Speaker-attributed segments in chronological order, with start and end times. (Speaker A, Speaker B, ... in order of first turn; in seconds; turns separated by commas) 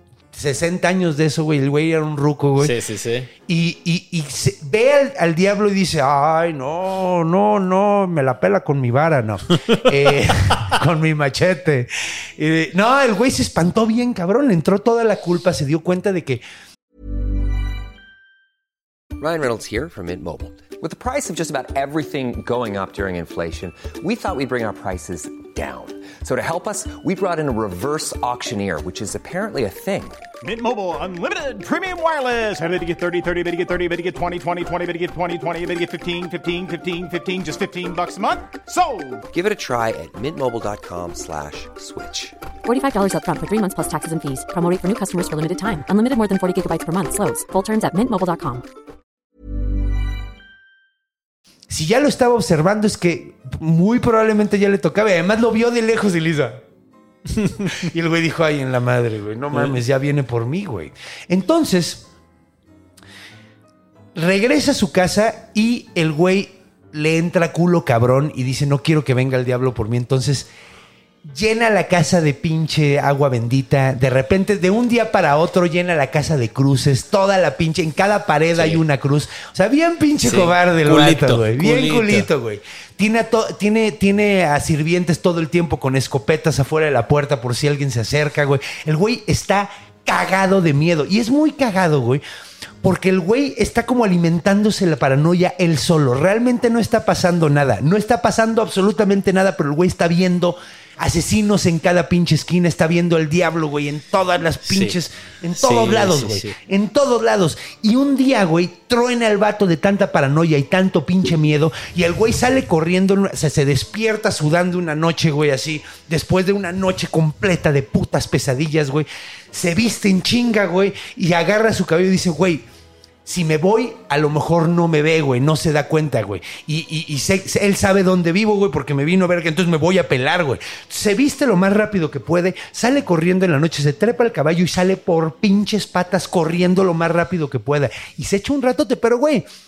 Speaker A: 0.3-2.8, Speaker B: 2.6-3.3, Speaker A: 3.5-16.4, Speaker C: 19.2-30.2, Speaker D: 30.4-39.2, Speaker C: 39.3-42.4, Speaker E: 42.6-48.6, Speaker A: 51.7-56.6, Speaker B: 57.4-57.7, Speaker A: 57.7-62.0, Speaker B: 59.5-59.8, Speaker A: 64.1-70.5, Speaker A: 71.2-92.2, Speaker B: 78.5-78.8, Speaker B: 80.2-82.3, Speaker A: 92.8-122.6, Speaker B: 104.6-105.0, Speaker B: 105.6-106.5, Speaker A: 123.2-139.4